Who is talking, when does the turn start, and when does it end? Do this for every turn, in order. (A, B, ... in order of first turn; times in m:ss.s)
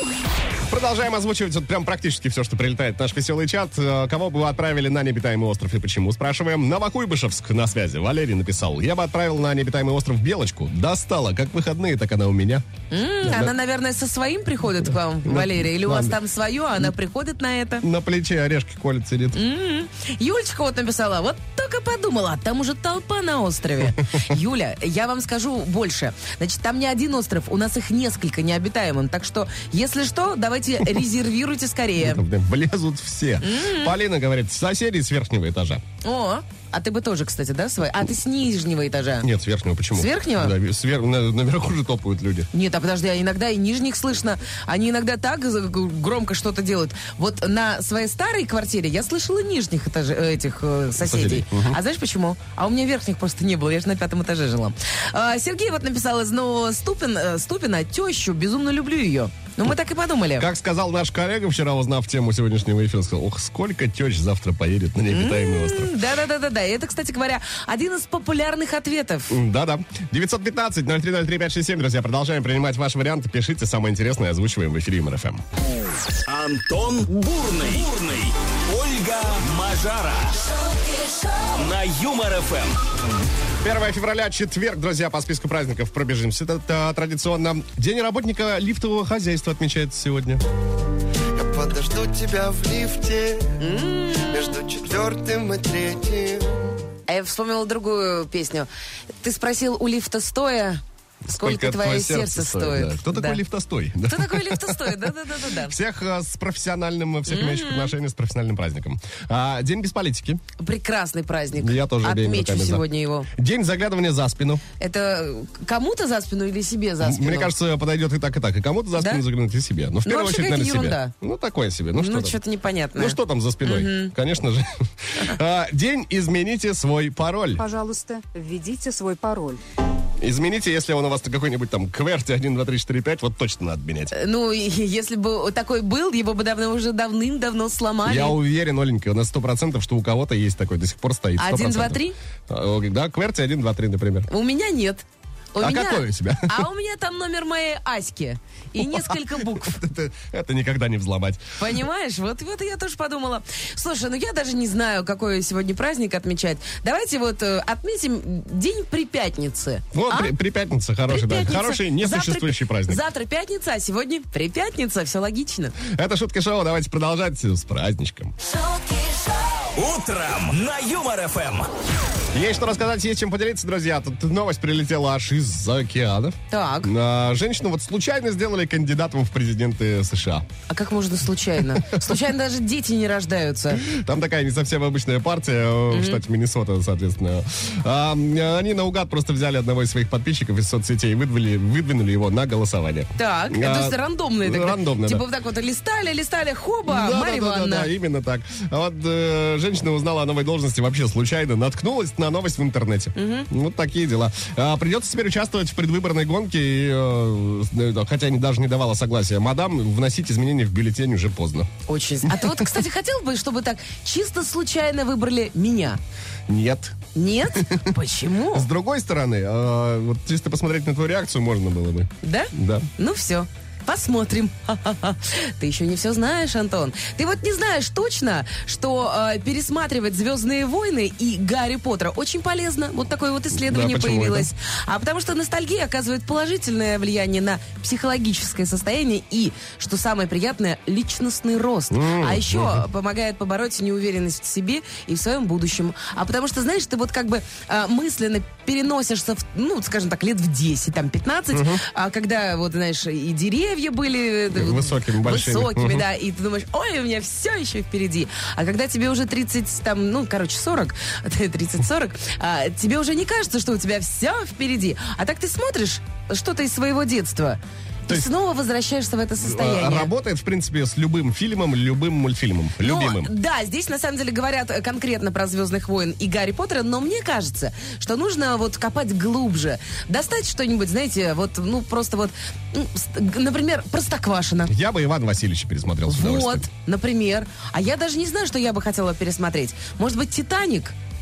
0:00.7-0:12.6 A
0:12.9-0:17.8 B
0:13.2-0:13.5 A
0:15.2-0:16.2 A
0:17.8-0:19.4 A
0:19.3-0:32.2 B
0:32.0-0:35.8 A
0:33.4-0:34.0 B
0:36.0-0:39.3 B
0:39.2-0:42.5 A
0:39.9-0:40.5 B
0:42.5-1:00.5 B
0:51.0-0:51.8 A
1:00.4-1:05.9 A
1:05.1-1:09.4 B
1:09.3-1:15.4 A
1:16.3-1:20.5 C
1:21.5-1:22.8 C
1:23.6-1:30.4 A
1:31.3-1:33.6 D
1:33.6-1:34.5 B
1:34.1-1:36.6 D
1:37.1-1:38.7 B
1:39.2-1:40.8 B
1:41.3-1:45.0 A
1:41.3-1:43.4 B
1:44.0-1:45.8 B
1:45.6-1:50.4 A
1:47.3-1:47.9 B
1:50.6-1:53.3 B
1:51.6-1:54.6 A
1:54.8-1:57.5 B
1:57.0-2:02.4 A
1:59.0-1:59.2 B
2:00.0-2:01.1 B
2:01.9-2:04.1 B
2:03.0-2:07.6 A
2:07.6-2:09.6 E
2:10.2-2:14.1 A
2:14.1-2:18.4 B
2:18.0-2:24.3 A
2:21.4-2:22.2 B
2:24.3-2:29.8 B
2:25.6-2:26.6 A
2:28.8-2:31.4 A
2:31.6-2:40.3 B
2:39.9-2:43.0 A
2:41.1-2:45.8 B
2:45.8-2:48.3 A
2:49.7-2:51.7 C
2:52.3-3:00.4 A
2:56.5-2:56.9 B
3:00.7-3:03.8 B
3:03.7-3:15.2 A
3:05.9-3:06.2 B
3:13.2-3:17.9 B
3:16.9-3:31.7 A
3:23.2-3:23.5 B
3:31.9-3:36.0 B
3:32.2-3:32.7 A
3:36.5-3:37.0 A
3:37.1-3:38.7 B
3:38.5-3:42.9 A
3:42.2-4:30.1 B
3:53.5-3:54.5 A
4:01.9-4:02.8 A
4:11.5-4:11.8 A
4:14.5-4:16.0 A
4:29.4-4:33.3 A
4:32.8-4:44.7 B
4:44.7-4:46.7 A
4:46.1-4:50.9 B